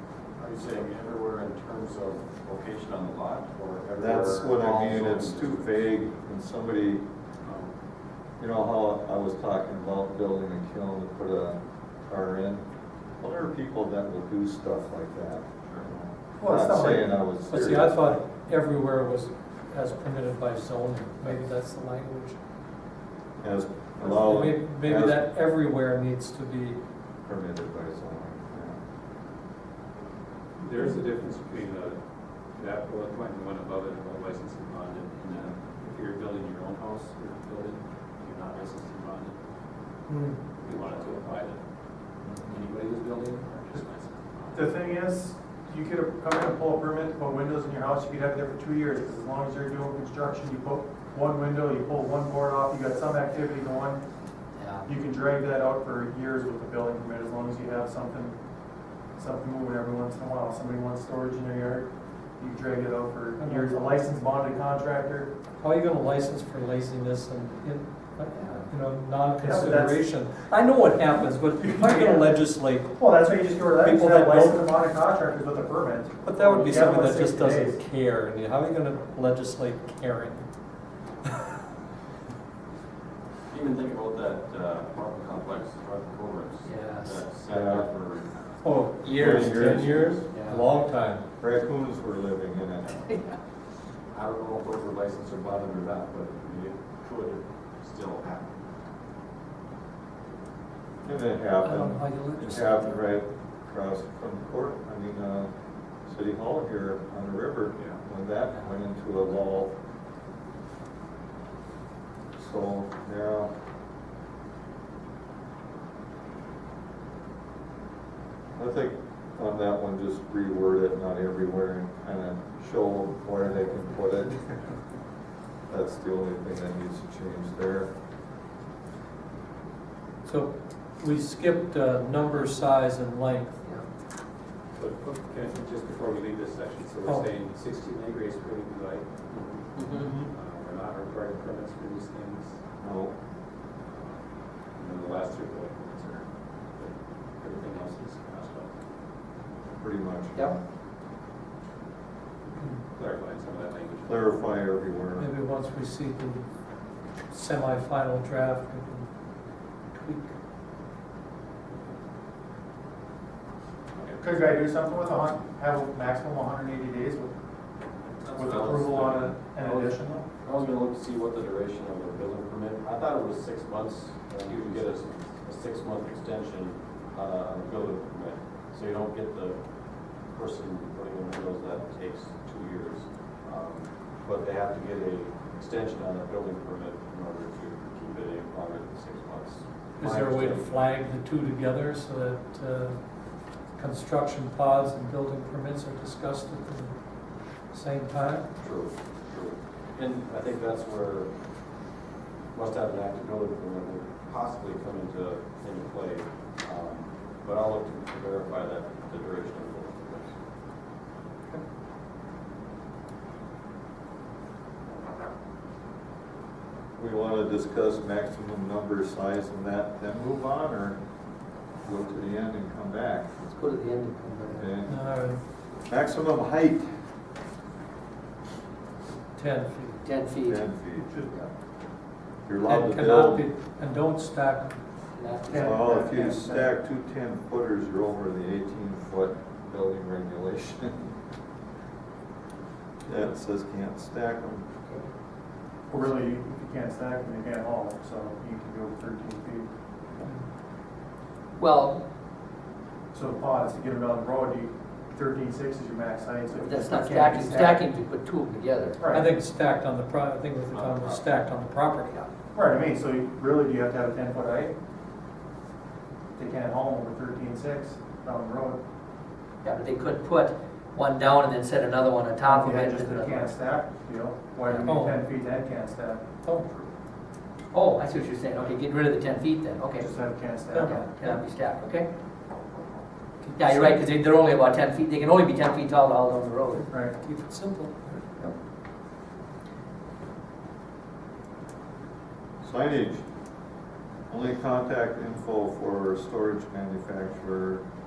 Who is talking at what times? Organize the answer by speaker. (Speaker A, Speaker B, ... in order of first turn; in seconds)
Speaker A: 0.4-5.8, 40.7-41.2, 83.5-88.6, 89.1-90.6, 94.1-98.5, 168.4-169.8, 170.4-179.6, 180.3-190.7, 198.6-201.3, 202.5-210.4, 260.7-261.2
Speaker B: 4.0-7.0, 8.4-12.7, 13.2-18.2, 23.4-25.2, 27.3-28.8, 87.5-87.9, 89.0-90.0, 91.4-93.0, 101.0-105.5, 106.1-109.8, 112.4-113.5, 118.6-124.5, 125.7-127.9, 142.8-143.1, 149.8-150.6, 154.1-155.3, 217.0-221.0, 221.8-223.3, 224.6-225.0, 225.9-226.9, 230.4-231.4, 232.5-233.5, 235.6-241.2, 243.1-244.7, 292.6-293.2, 294.3-297.8
Speaker C: 16.4-17.1, 44.5-54.0, 54.9-58.4, 59.2-65.3, 69.4-70.0, 71.6-72.4, 73.0-77.8, 164.2-167.3, 168.3-170.2, 235.5-236.7, 245.9-249.7, 253.1-257.8, 259.0-259.3, 262.5-264.7, 266.4-268.8, 272.4-276.2, 280.0-281.1, 286.9-287.2
Speaker D: 17.4-22.4, 24.0-26.8, 40.1-40.4, 63.4-64.2, 65.6-73.0, 73.8-74.7, 76.2-80.5, 88.6-91.3, 101.6-102.9, 130.2-133.6, 137.1-137.3, 152.6-152.8, 155.2-156.5, 157.3-159.1, 159.9-160.3, 190.0-193.0, 193.7-197.0, 197.7-198.5, 224.8-225.4, 229.4-230.0, 232.7-234.8, 259.1-262.2, 274.8-275.2, 276.4-276.7, 280.7-281.4, 283.4-284.0, 286.8-288.4
Speaker E: 30.6-32.0, 32.6-39.4, 40.6-41.6, 42.5-44.6, 134.8-142.6, 144.8-146.2, 146.8-148.7, 153.0-154.3, 168.3-169.1, 174.5-175.2
Speaker F: 54.6-54.9, 86.6-87.2, 139.8-140.1, 223.4-224.7, 230.0-230.7, 235.2-235.6, 251.6-252.0, 256.5-259.0, 269.6-273.5, 274.7-275.0, 277.7-280.1, 280.7-282.1, 283.6-286.8